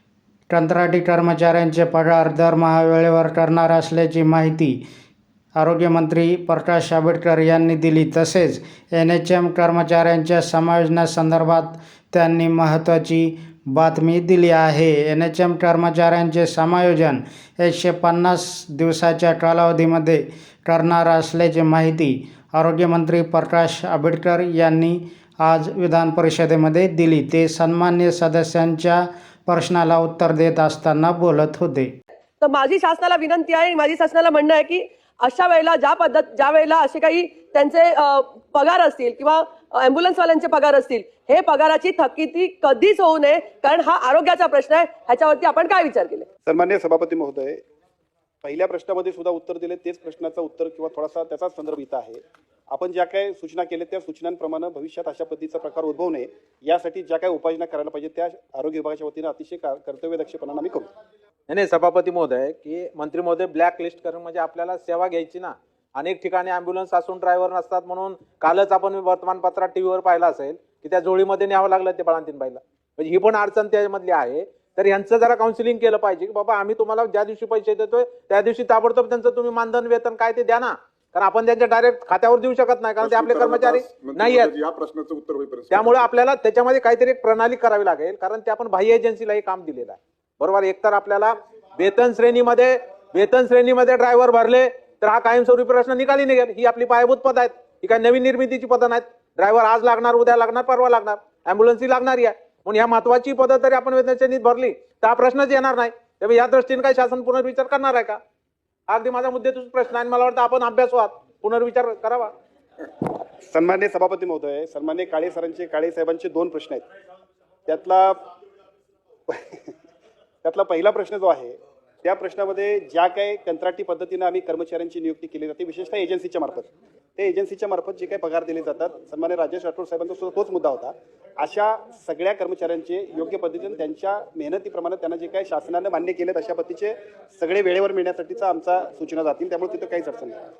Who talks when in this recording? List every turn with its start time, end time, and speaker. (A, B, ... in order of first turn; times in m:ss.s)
0:00.5-0:04.8 A
0:05.6-0:31.9 A
0:32.4-0:46.3 B
0:46.4-0:47.6 C
0:48.4-1:00.9 C
1:01.5-1:24.5 D
1:23.0-1:26.1 E
1:25.7-1:48.2 D
1:48.9-1:52.3 D
1:53.4-1:56.8 C
1:57.6-1:58.2 C
1:59.3-1:59.7 C
2:00.4-2:20.4 C